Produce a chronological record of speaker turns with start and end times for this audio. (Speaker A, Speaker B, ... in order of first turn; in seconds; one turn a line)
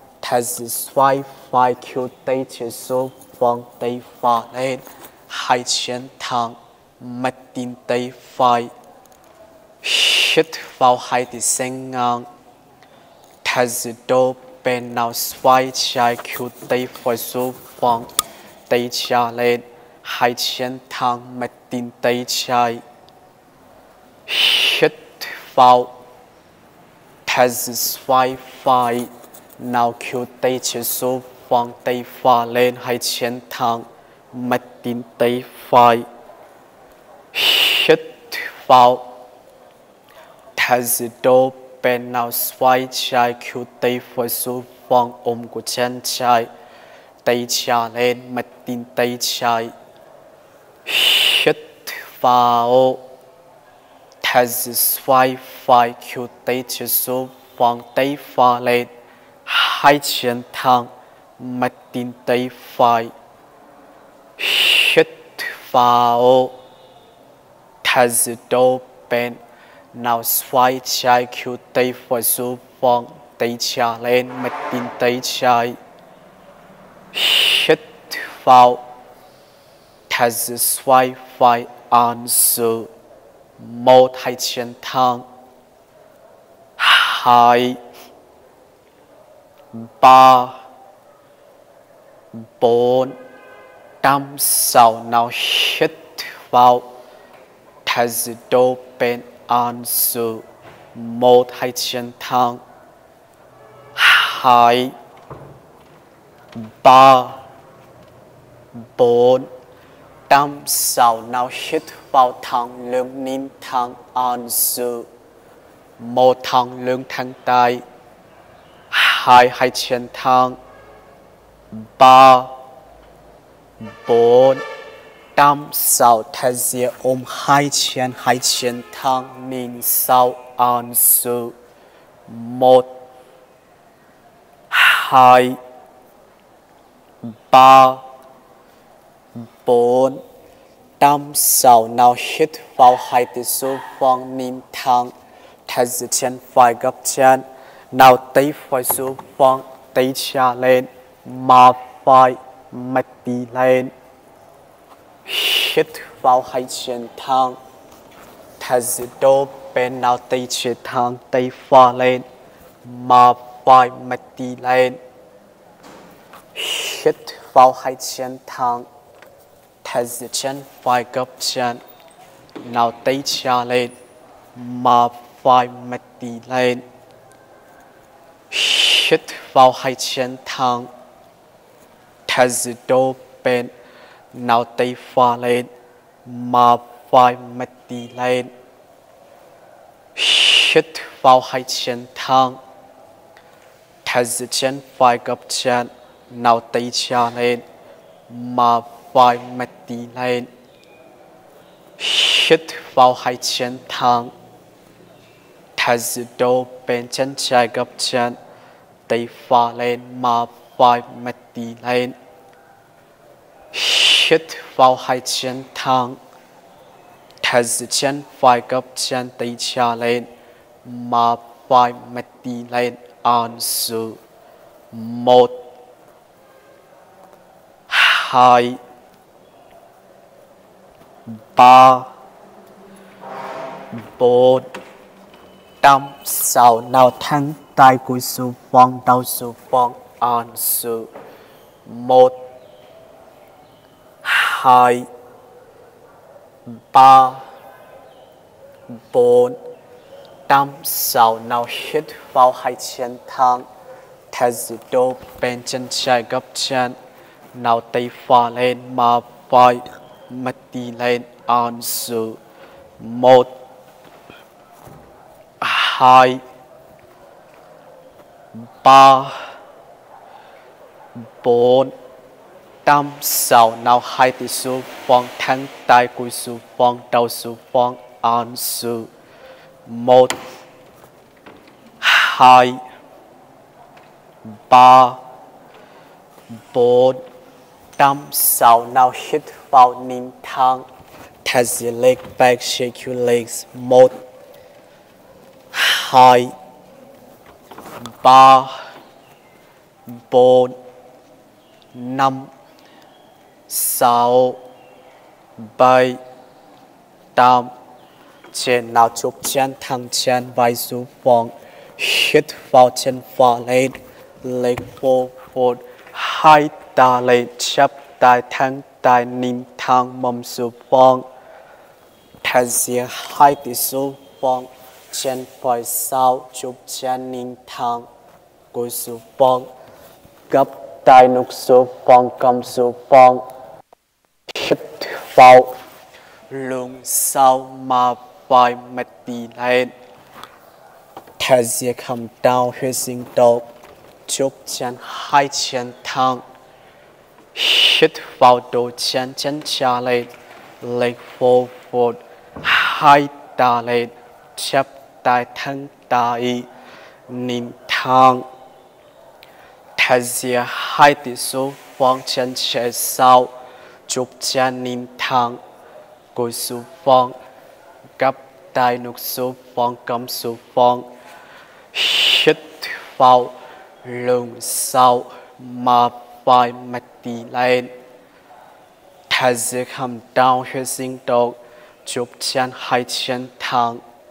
Speaker A: 0.2-8.7
Speaker A: 9.8-12.3
Speaker A: 13.4-18.1
Speaker A: 18.7-22.8
Speaker A: 24.3-26.0
Speaker A: 27.3-36.1
Speaker A: 37.3-39.2
Speaker A: 40.6-46.5
Speaker A: 47.2-49.7
Speaker A: 50.9-53.0
Speaker A: 54.2-58.9
Speaker A: 59.5-63.1
Speaker A: 64.4-66.6
Speaker A: 67.8-69.4
Speaker A: 69.9-75.8
Speaker A: 77.1-78.9
Speaker A: 80.1-82.9
Speaker A: 83.6-85.3
Speaker A: 86.8-87.8
Speaker A: 89.7-90.6
Speaker A: 92.3-93.2
Speaker A: 94.0-96.9
Speaker A: 97.8-102.6
Speaker A: 104.0-104.9
Speaker A: 106.6-107.4
Speaker A: 109.0-109.5
Speaker A: 110.3-115.1
Speaker A: 116.0-117.8
Speaker A: 118.9-120.6
Speaker A: 121.7-122.6
Speaker A: 123.8-124.7
Speaker A: 125.4-131.6
Speaker A: 132.3-133.0
Speaker A: 134.7-135.6
Speaker A: 137.3-138.1
Speaker A: 139.6-140.2
Speaker A: 141.0-145.1
Speaker A: 145.7-153.9
Speaker A: 155.3-157.6
Speaker A: 158.6-162.3
Speaker A: 162.8-165.0
Speaker A: 166.5-168.9
Speaker A: 169.8-171.8
Speaker A: 172.6-173.9
Speaker A: 174.6-176.8
Speaker A: 178.5-180.9
Speaker A: 182.3-183.7
Speaker A: 184.3-185.7
Speaker A: 186.2-188.5
Speaker A: 190.2-192.6
Speaker A: 194.1-197.6
Speaker A: 198.3-200.5
Speaker A: 202.0-204.3
Speaker A: 205.8-208.4
Speaker A: 209.1-212.2
Speaker A: 213.7-216.2
Speaker A: 217.4-220.3
Speaker A: 220.8-224.2
Speaker A: 224.9-225.6
Speaker A: 227.9-228.8
Speaker A: 231.5-232.1
Speaker A: 233.9-234.7
Speaker A: 235.8-241.1
Speaker A: 241.9-242.4
Speaker A: 244.2-245.1
Speaker A: 246.7-247.5
Speaker A: 249.0-249.6
Speaker A: 250.5-253.7
Speaker A: 254.3-257.0
Speaker A: 257.5-262.4
Speaker A: 263.0-263.5
Speaker A: 265.6-266.4
Speaker A: 268.6-269.5
Speaker A: 271.2-271.9
Speaker A: 272.9-279.1
Speaker A: 279.9-280.4
Speaker A: 282.0-282.8
Speaker A: 284.5-285.2
Speaker A: 286.5-287.2
Speaker A: 288.0-290.9
Speaker A: 291.4-294.2
Speaker A: 295.7-296.6
Speaker A: 298.0-298.8
Speaker A: 300.1-300.8
Speaker A: 301.9-302.5
Speaker A: 303.7-304.6
Speaker A: 305.6-306.2
Speaker A: 307.4-307.7
Speaker A: 308.5-321.3
Speaker A: 322.4-328.1
Speaker A: 328.7-329.7
Speaker A: 330.5-333.5
Speaker A: 334.5-335.8
Speaker A: 336.5-339.9
Speaker A: 341.4-343.7
Speaker A: 344.3-346.4
Speaker A: 347.6-350.3
Speaker A: 350.8-356.7
Speaker A: 357.3-358.5
Speaker A: 360.0-363.5
Speaker A: 364.1-365.6
Speaker A: 366.4-367.4
Speaker A: 368.2-371.1
Speaker A: 371.9-377.9
Speaker A: 379.3-384.0